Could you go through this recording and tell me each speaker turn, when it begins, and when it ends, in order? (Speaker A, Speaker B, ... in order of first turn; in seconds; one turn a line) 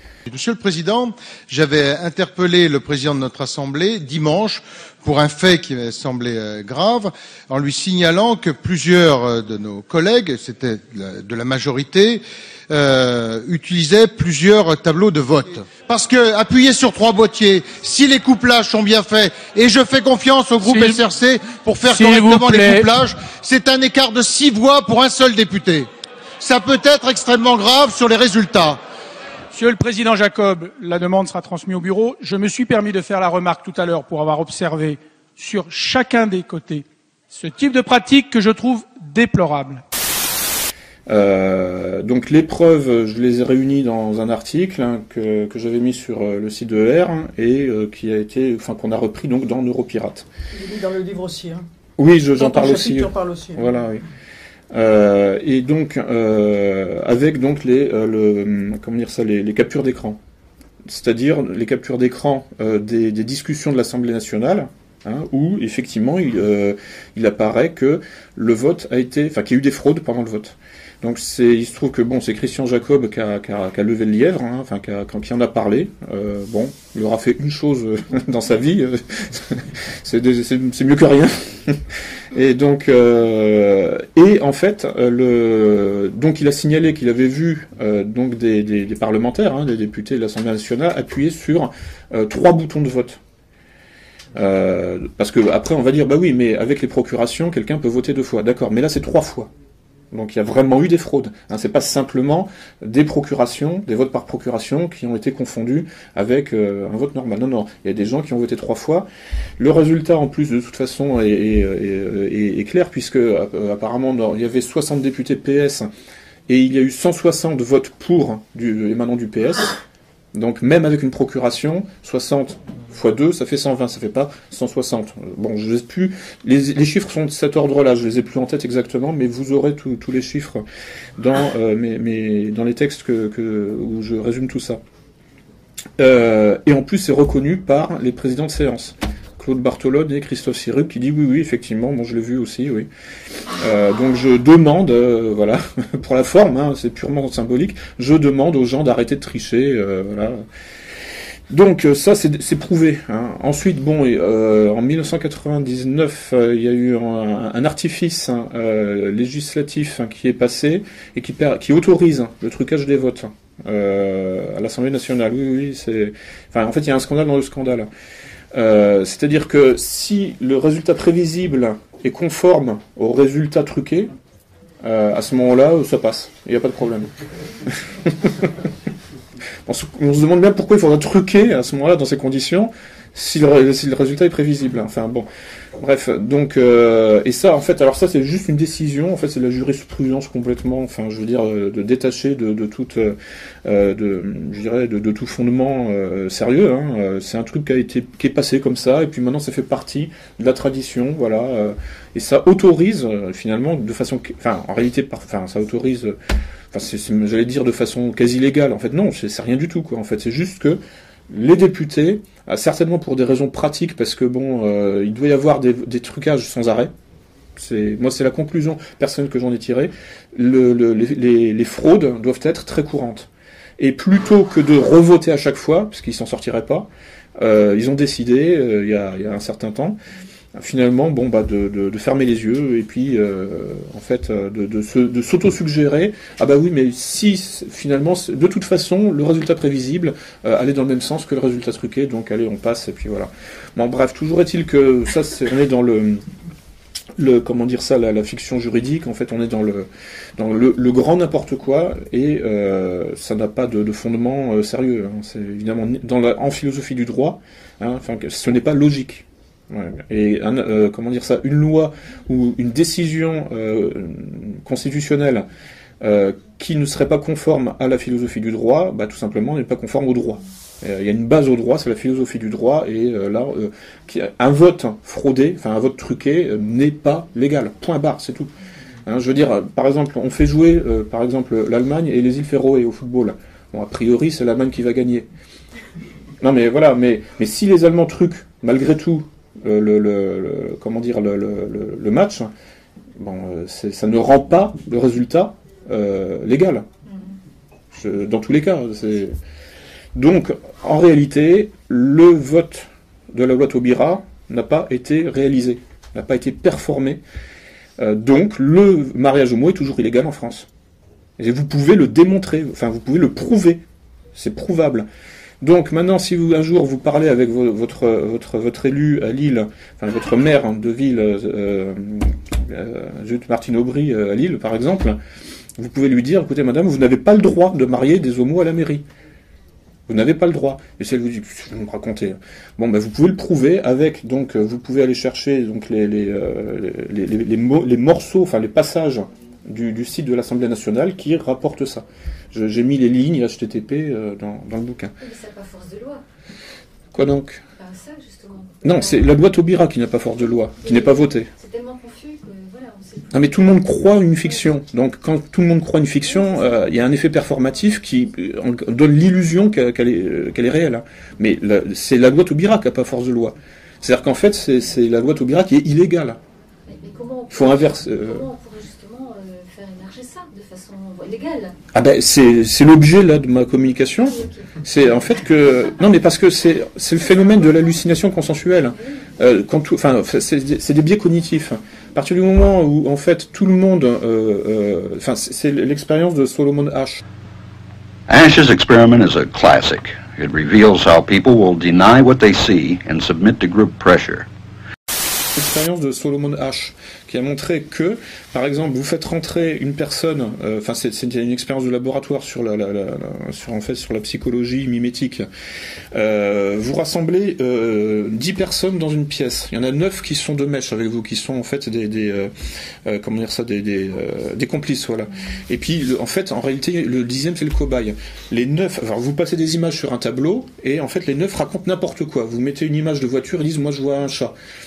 Speaker A: 0.3-25.9
Speaker B: 20.6-21.0
Speaker B: 21.8-22.9
Speaker A: 26.4-28.8
Speaker B: 29.5-39.8
Speaker C: 41.1-50.2
Speaker D: 50.5-51.6
Speaker C: 52.0-54.0
Speaker D: 52.4-53.7
Speaker C: 54.7-60.2
Speaker C: 60.9-81.8
Speaker C: 82.3-93.2
Speaker C: 94.3-99.5
Speaker C: 100.1-109.1
Speaker C: 109.6-115.9
Speaker C: 116.5-119.8
Speaker C: 120.3-130.6
Speaker C: 131.2-134.8
Speaker C: 136.0-142.9
Speaker C: 143.5-150.4
Speaker C: 151.5-167.9
Speaker C: 168.5-174.1
Speaker C: 174.8-177.1
Speaker C: 177.6-178.5
Speaker C: 179.7-185.2
Speaker C: 185.8-206.2
Speaker C: 206.7-216.9
Speaker C: 217.6-223.3
Speaker C: 223.8-230.0
Speaker C: 230.5-246.2
Speaker C: 247.2-265.4
Speaker C: 266.0-278.5
Speaker C: 279.1-285.2
Speaker C: 286.4-292.5
Speaker C: 293.2-296.8
Speaker C: 297.9-299.4
Speaker C: 300.1-307.2
Speaker C: 308.0-310.7
Speaker C: 311.4-313.8
Speaker C: 314.3-315.1
Speaker C: 315.6-325.2
Speaker C: 325.8-329.0
Speaker C: 330.1-345.1
Speaker E: 345.2-346.2
Speaker C: 347.1-347.6
Speaker E: 347.8-349.4
Speaker C: 348.8-351.5
Speaker E: 350.8-353.7
Speaker C: 353.3-366.4
Speaker E: 366.9-371.8
Speaker C: 367.5-368.4
Speaker C: 371.9-387.2
Speaker E: 374.2-374.8
Speaker F: 388.3-394.4
Speaker C: 395.6-405.4
Speaker C: 406.1-412.5
Speaker C: 413.0-424.5